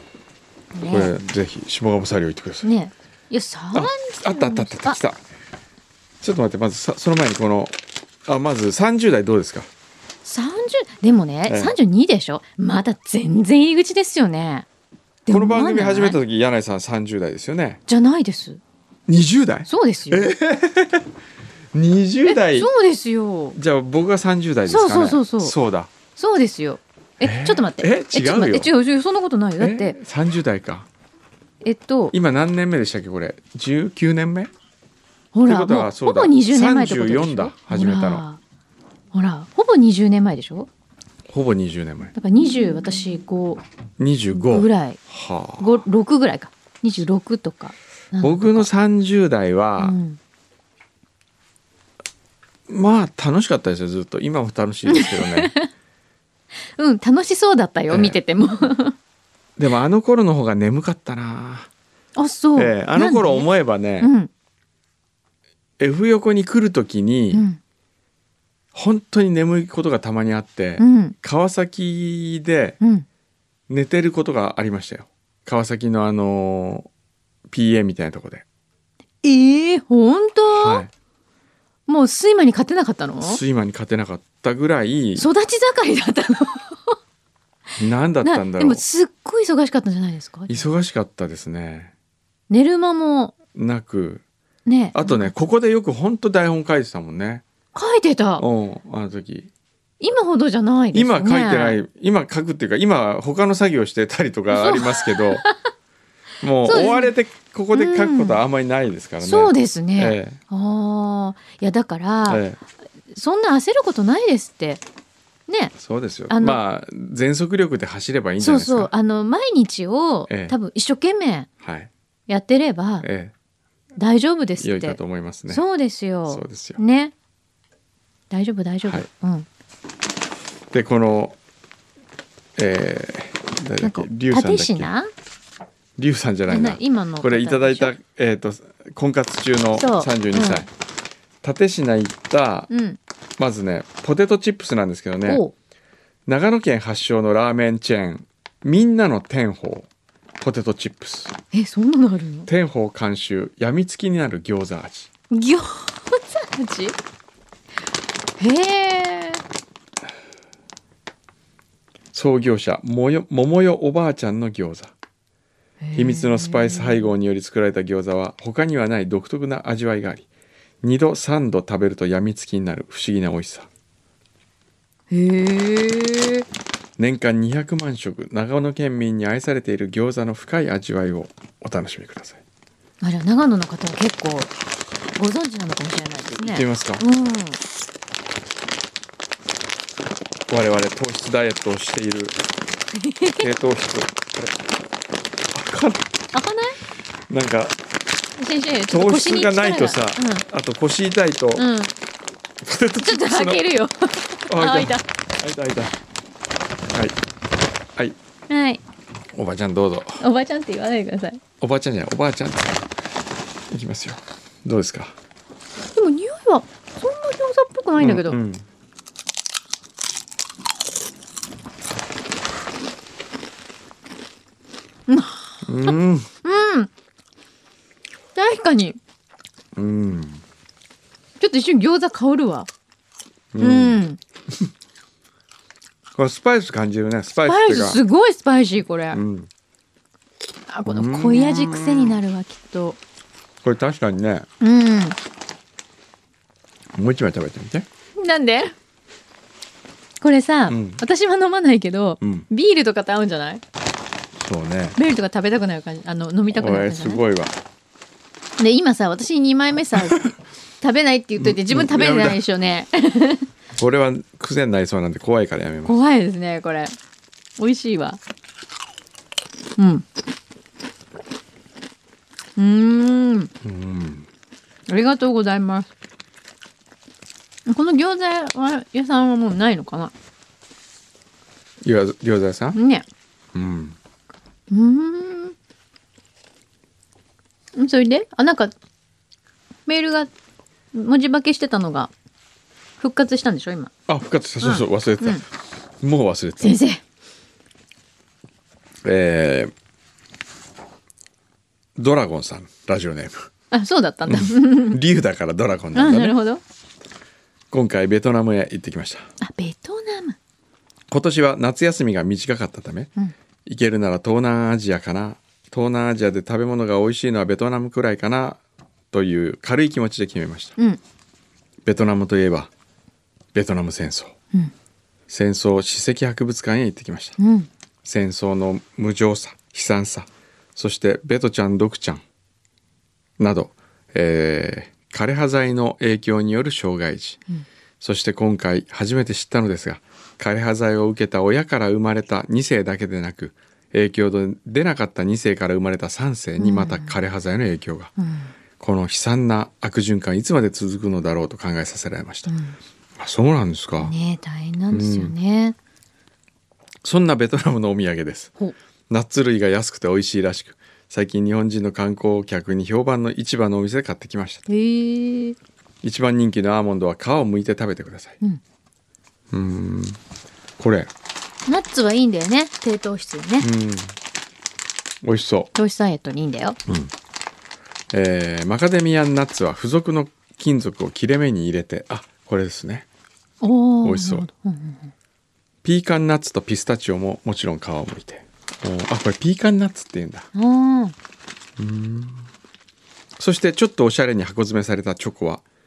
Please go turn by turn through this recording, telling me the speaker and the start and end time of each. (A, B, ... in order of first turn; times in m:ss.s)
0:00.7-0:01.1 A
0:00.8-0:02.7 B
0:02.6-0:05.0 A
0:03.7-0:05.2 B
0:06.2-0:09.7 B
0:10.2-0:14.7 A
0:11.5-0:11.8 B
0:15.3-0:16.2 A
0:15.3-0:17.8 B
0:17.9-0:18.6 A
0:19.1-0:21.1 B
0:19.7-0:20.4 A
0:21.7-0:22.7 B
0:22.3-0:23.6 A
0:23.5-0:25.9 B
0:24.7-0:25.6 A
0:26.2-0:30.0 A
0:27.2-0:28.7 B
0:29.6-0:30.9 B
0:31.6-0:32.1 A
0:32.1-0:34.5 B
0:35.3-0:38.4 A
0:35.5-0:38.2 B
0:39.1-0:40.7 A
0:41.3-0:42.1 B
0:42.1-0:43.6 A
0:44.0-0:45.8 B
0:44.3-0:45.0 A
0:45.6-0:48.7 A
0:48.2-0:50.0 B
0:49.8-0:50.2 A
0:52.7-0:55.5 B
0:54.9-0:55.7 A
0:56.8-0:59.0 A
0:57.9-0:58.2 B
0:59.6-1:01.7 B
1:02.2-1:03.5 A
1:02.6-1:04.1 B
1:04.0-1:04.3 A
1:05.8-1:07.5 B
1:07.3-1:07.6 A
1:08.7-1:12.8 B
1:10.8-1:11.2 A
1:12.8-1:13.1 A
1:13.7-1:16.9 B
1:17.5-1:18.4 B
1:19.2-1:20.8 A
1:20.5-1:20.9 B
1:21.9-1:23.4 A
1:23.2-1:25.3 B
1:25.2-1:27.0 A
1:27.8-1:28.8 B
1:28.2-1:30.7 A
1:30.5-1:31.9 B
1:32.5-1:33.3 A
1:33.6-1:34.2 B
1:34.7-1:35.3 A
1:34.9-1:37.4 B
1:37.7-1:38.4 A
1:38.4-1:39.5 B
1:40.0-1:41.8 A
1:40.9-1:45.5 B
1:44.5-1:45.6 A
1:46.4-1:50.4 B
1:46.6-1:47.1 A
1:47.7-1:48.4 A
1:49.2-1:52.5 A
1:52.3-1:52.6 B
1:53.1-1:54.8 A
1:55.5-1:55.7 A
1:55.8-1:58.9 B
1:56.3-1:56.6 A
1:58.4-2:01.5 A
2:00.3-2:00.6 B
2:01.6-2:01.9 B
2:02.3-2:03.1 A
2:03.0-2:03.3 B
2:04.0-2:07.1 A
2:04.6-2:05.6 B
2:06.3-2:06.8 B
2:08.3-2:09.5 A
2:08.8-2:09.1 B
2:10.7-2:11.4 B
2:12.6-2:14.9 B
2:13.8-2:15.1 A
2:16.0-2:20.7 B
2:16.5-2:18.0 A
2:19.7-2:20.7 A
2:21.4-2:22.7 B
2:22.7-2:23.0 A
2:23.4-2:25.4 B
2:25.3-2:25.5 A
2:26.3-2:29.9 B
2:30.4-2:31.3 B
2:31.5-2:32.5 A
2:32.5-2:35.1 B
2:35.3-2:37.0 A
2:38.4-2:39.4 A
2:42.1-2:44.9 B
2:45.8-2:47.1 A
2:46.0-2:50.3 B
2:50.8-2:53.7 B
2:55.1-2:56.5 A
2:57.0-3:02.4 B
3:03.0-3:04.5 A
3:05.2-3:07.6 A
3:06.3-3:07.0 B
3:10.5-3:12.4 B
3:12.9-3:13.5 A
3:13.4-3:14.6 B
3:15.5-3:16.0 B
3:16.3-3:16.8 A
3:17.3-3:17.8 B
3:18.4-3:20.4 A
3:18.9-3:21.7 B
3:21.6-3:21.9 A
3:22.6-3:23.6 B
3:23.0-3:25.0 A
3:24.5-3:26.0 B
3:26.9-3:27.2 B
3:28.5-3:28.8 A
3:29.3-3:30.2 B
3:30.2-3:31.4 A
3:31.6-3:32.9 B
3:33.7-3:35.2 B
3:35.9-3:38.4 A
3:38.0-3:38.6 B
3:45.1-3:46.9 A
3:45.6-3:46.3 B
3:48.4-3:49.0 A
3:49.8-3:50.4 B
3:51.4-3:52.7 A
3:53.5-3:54.0 B
3:53.6-3:54.2 A
3:56.2-3:58.0 B
3:57.4-3:59.2 A
3:59.1-3:59.5 B
4:00.7-4:03.0 A
4:00.9-4:02.2 B
4:03.6-4:04.5 B
4:04.6-4:05.2 A
4:07.0-4:07.9 B
4:08.2-4:08.7 A
4:10.2-4:13.6 A
4:10.7-4:11.0 B
4:12.2-4:12.5 B
4:14.4-4:15.0 B
4:15.0-4:17.2 A
4:16.5-4:17.6 B
4:18.6-4:23.5 A
4:21.4-4:22.4 B
4:23.8-4:26.0 B
4:25.8-4:27.0 A
4:27.6-4:28.2 A
4:29.8-4:30.1 A
4:32.6-4:33.5 A
4:33.6-4:34.3 B
4:34.9-4:35.9 A
4:37.7-4:40.1 A
4:41.8-4:42.8 B
4:42.7-4:43.0 A
4:43.6-4:44.0 B
4:44.7-4:45.6 A
4:47.8-4:48.7 A
4:49.9-4:50.3 A
4:50.9-4:52.1 A
4:53.0-4:53.9 A
4:54.1-4:55.5 B
4:54.6-4:55.4 A
4:56.0-4:56.8 B
4:56.6-4:57.0 A
4:59.0-4:59.7 B
5:02.0-5:03.5 B
5:03.7-5:05.0 A
5:04.3-5:06.4 B
5:05.9-5:06.6 A
5:07.7-5:09.3 B
5:09.4-5:10.4 A
5:11.1-5:13.1 B
5:13.7-5:20.8 B
5:21.8-5:22.7 B
5:23.5-5:24.4 B
5:25.3-5:27.4 B
5:27.4-5:27.7 A
5:28.0-5:32.2 B
5:33.4-5:37.4 B
5:38.0-5:48.1 B
5:46.6-5:47.2 A
5:48.2-5:48.5 A
5:48.8-5:52.6 B
5:52.5-5:52.8 A
5:53.2-5:54.1 B
5:54.0-5:55.8 A
5:54.9-5:55.3 B
5:57.0-5:58.5 B
5:59.1-6:04.6 B
6:04.7-6:05.6 A
6:06.0-6:08.4 B
6:09.5-6:10.2 B
6:10.8-6:11.1 B
6:11.7-6:13.7 A
6:13.6-6:14.2 B
6:15.2-6:15.7 B
6:15.7-6:16.8 A
6:16.9-6:17.1 B
6:18.1-6:23.1 B
6:23.6-6:25.1 A
6:24.0-6:24.5 B
6:25.8-6:30.5 B
6:30.5-6:31.2 A
6:31.8-6:32.5 B
6:33.4-6:35.6 B